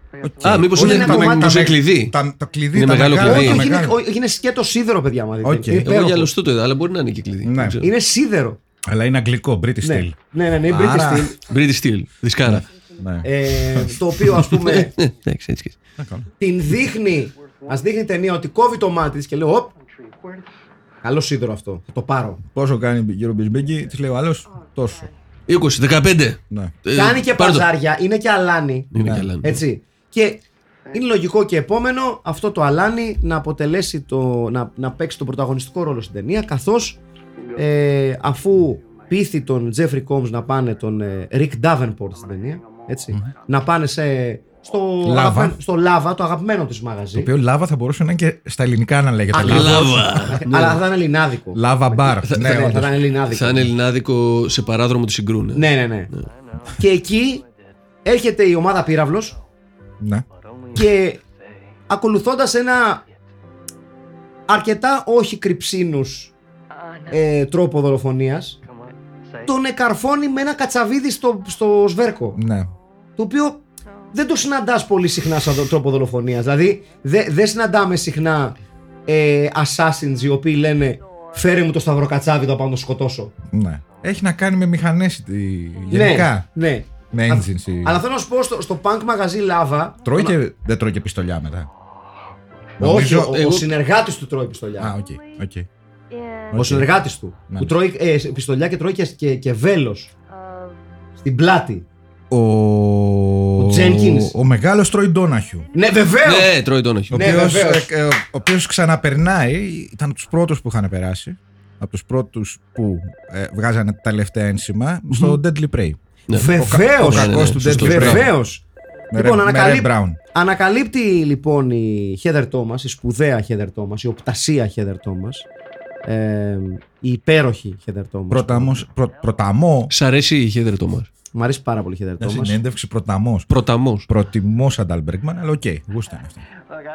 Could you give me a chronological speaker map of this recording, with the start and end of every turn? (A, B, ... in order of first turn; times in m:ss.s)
0:00.2-0:04.0 A
0:00.4-0:02.1 B
0:00.7-0:01.7 C
0:02.7-0:03.7 B
0:03.2-0:06.3 C
0:05.4-0:05.9 A
0:05.8-0:07.9 B
0:07.4-0:07.8 A
0:07.8-0:08.6 C
0:08.9-0:11.3 A
0:09.8-0:11.4 C
0:11.4-0:12.6 B
0:12.4-0:14.0 A
0:13.2-0:14.9 C
0:14.3-0:15.8 B
0:16.0-0:16.3 A
0:16.4-0:19.7 C
0:21.0-0:22.4 C
0:22.5-0:25.1 A
0:25.5-0:27.6 B
0:26.9-0:37.0 C
0:28.9-0:29.6 B
0:29.0-0:29.3 A
0:37.5-0:47.3 C
0:45.0-0:45.6 A
0:47.1-0:50.4 A
0:49.3-0:53.7 C
0:49.4-0:50.8 B
0:51.5-0:53.0 A
0:52.3-0:52.6 B
0:53.3-0:56.2 B
0:55.5-0:56.1 C
0:56.8-0:57.4 C
0:58.0-0:59.4 C
1:00.0-1:00.2 A
1:00.7-1:01.2 C
1:01.9-1:03.0 C
1:04.5-1:06.3 C
1:07.1-1:08.6 C
1:09.4-1:12.4 C
1:12.3-1:12.7 A
1:13.2-1:18.6 C
1:19.1-1:23.3 C
1:23.5-1:26.5 A
1:25.9-1:30.3 C
1:27.1-1:28.0 A
1:30.0-1:31.7 A
1:32.8-1:33.4 A
1:32.8-1:34.9 C
1:33.3-1:33.7 B
1:34.8-1:35.7 A
1:36.5-1:36.9 A
1:36.5-1:40.1 C
1:37.5-1:37.8 A
1:41.2-1:41.9 C
1:42.3-1:45.7 A
1:43.6-1:44.3 C
1:45.7-1:46.5 C
1:46.2-1:47.2 B
1:47.1-1:58.3 A
1:47.1-1:47.9 C
1:55.1-1:55.4 C
1:56.3-1:58.3 B
1:56.3-1:58.6 C
1:59.1-2:00.2 A
1:59.1-2:05.5 C
2:06.0-2:08.8 C
2:08.3-2:09.9 A
2:09.9-2:11.1 B
2:11.3-2:12.6 C
2:12.2-2:13.5 A
2:13.5-2:14.1 B
2:14.1-2:16.4 A